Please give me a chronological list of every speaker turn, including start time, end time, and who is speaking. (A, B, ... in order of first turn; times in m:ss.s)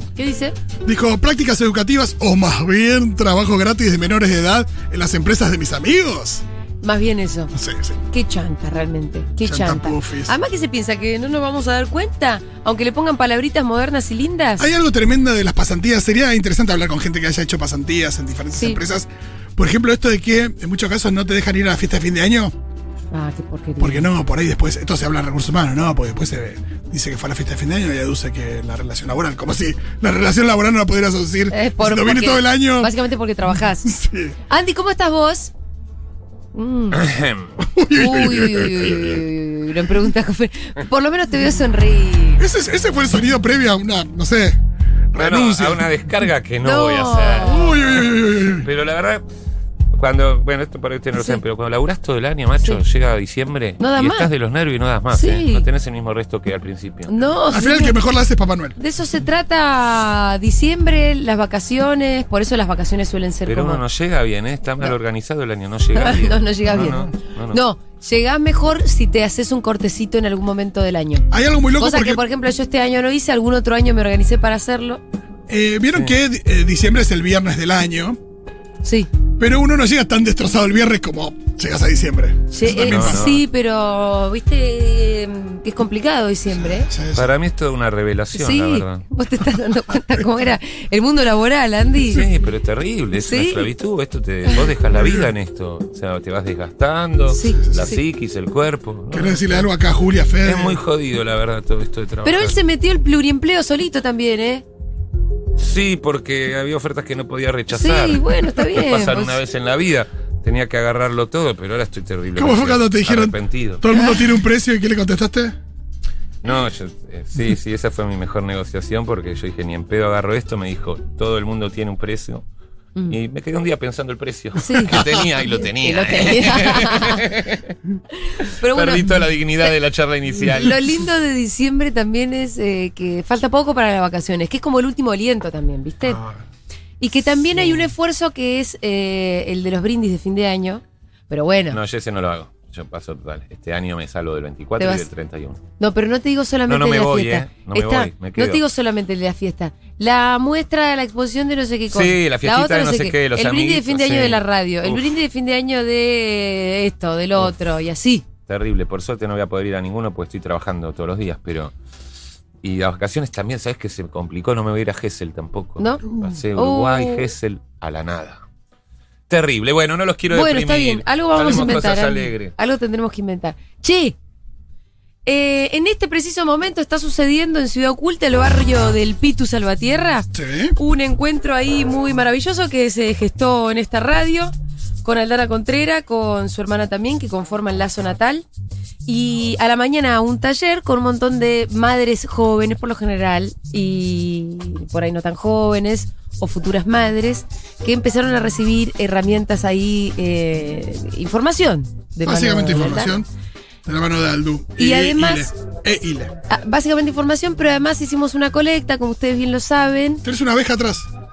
0:00.2-0:00.5 A
0:00.8-0:06.4 B
0:06.8-0:07.5 A
0:07.5-0:08.0 B
0:08.1-0:14.6 A
0:09.4-0:10.3 B
0:14.6-0:22.5 B
0:18.5-0:18.8 A
0:23.1-0:24.1 A
0:23.8-0:32.9 B
0:31.5-0:33.9 A
0:33.8-0:34.3 B
0:34.5-0:35.5 A
0:36.5-0:37.0 A
0:36.9-0:37.5 C
0:37.6-0:39.2 B
0:37.9-0:42.4 A
0:42.4-0:44.6 B
0:45.1-0:45.9 B
0:45.1-0:49.2 C
0:46.6-0:47.9 A
0:47.4-0:48.6 B
0:49.9-0:57.2 C
0:51.1-0:51.4 A
0:53.8-0:54.3 A
0:55.1-0:55.7 A
0:57.1-0:58.0 A
0:57.5-0:58.8 B
0:58.8-1:03.8 A
1:03.4-1:07.6 C
1:06.0-1:11.3 A
1:11.3-1:12.2 B
1:11.8-1:15.0 A
1:15.5-1:18.2 B
1:18.8-1:19.1 A
1:19.4-1:23.3 B
1:22.6-1:26.9 A
1:22.7-1:23.4 C
1:26.6-1:27.3 B
1:27.1-1:29.0 C
1:28.3-1:32.2 A
1:32.1-1:39.7 C
1:33.2-1:33.7 A
1:34.9-1:35.3 B
1:37.3-1:38.0 A
1:37.6-1:37.9 B
1:39.1-1:40.8 B
1:40.4-1:42.6 C
1:42.2-1:44.6 A
1:45.6-1:53.8 C
1:47.7-1:49.4 A
1:52.3-1:55.5 B
1:56.4-2:02.4 C
2:03.1-2:07.7 C
2:04.6-2:07.2 A
2:08.2-2:09.6 A
2:08.7-2:10.8 C
2:10.6-2:16.2 A
2:17.0-2:21.8 A
2:17.6-2:17.9 C
2:21.7-2:25.6 C
2:24.8-2:25.0 A
2:25.8-2:38.2 A
2:26.7-2:28.6 C
2:31.9-2:35.1 C
2:38.5-2:41.7 C
2:42.6-2:48.4 C
2:45.8-2:46.0 A
2:46.5-2:47.3 A
2:49.3-2:52.5 C
2:50.3-2:54.2 A
2:55.2-3:08.4 A
3:00.3-3:00.8 B
3:09.0-3:23.2 A
3:22.2-3:23.3 B
3:23.8-3:26.3 B
3:24.8-3:25.5 A
3:26.5-3:30.2 A
3:30.2-3:31.1 B